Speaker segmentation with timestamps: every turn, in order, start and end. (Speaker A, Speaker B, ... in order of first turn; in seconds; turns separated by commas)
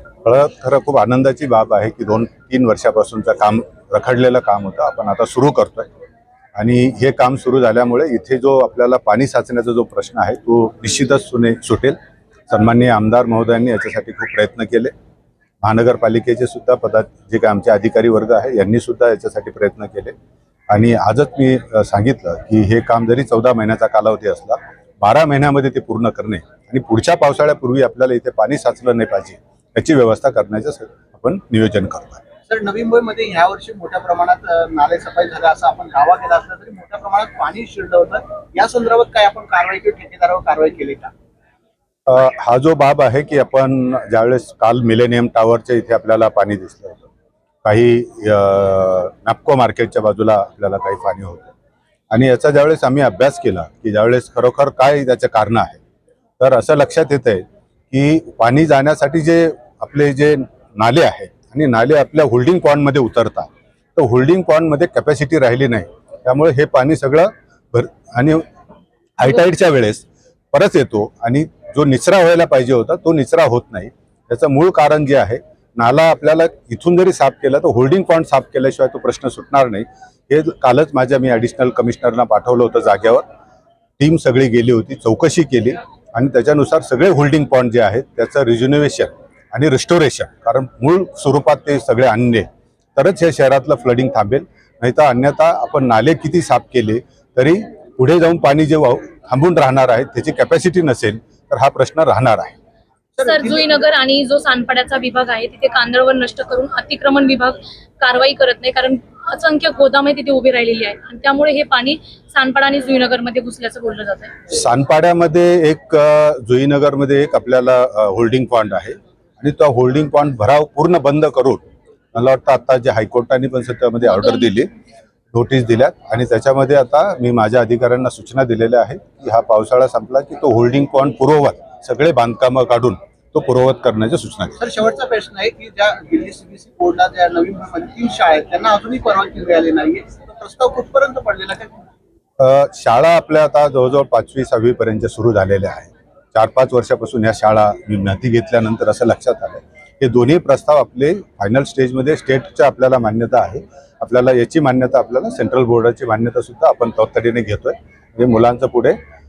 Speaker A: 0.2-5.9, Speaker A: 6.5-11.9, Speaker A: 12.5-14.9, Speaker A: 15.6-20.1, Speaker A: 20.7-32.2, Speaker B: 32.5-41.1, Speaker A: 42.1-47.1, Speaker A: 47.6-51.5, Speaker A: 52.1-55.8, Speaker A: 56.4-68.4, Speaker A: 69.2-83.2, Speaker A: 84.0-102.5, Speaker B: 103.2-103.7, Speaker C: 103.2-114.4, Speaker A: 114.5-121.6, Speaker A: 122.1-124.7, Speaker C: 124.0-124.5, Speaker A: 125.3-134.6, Speaker B: 134.6-141.8, Speaker A: 142.4-159.0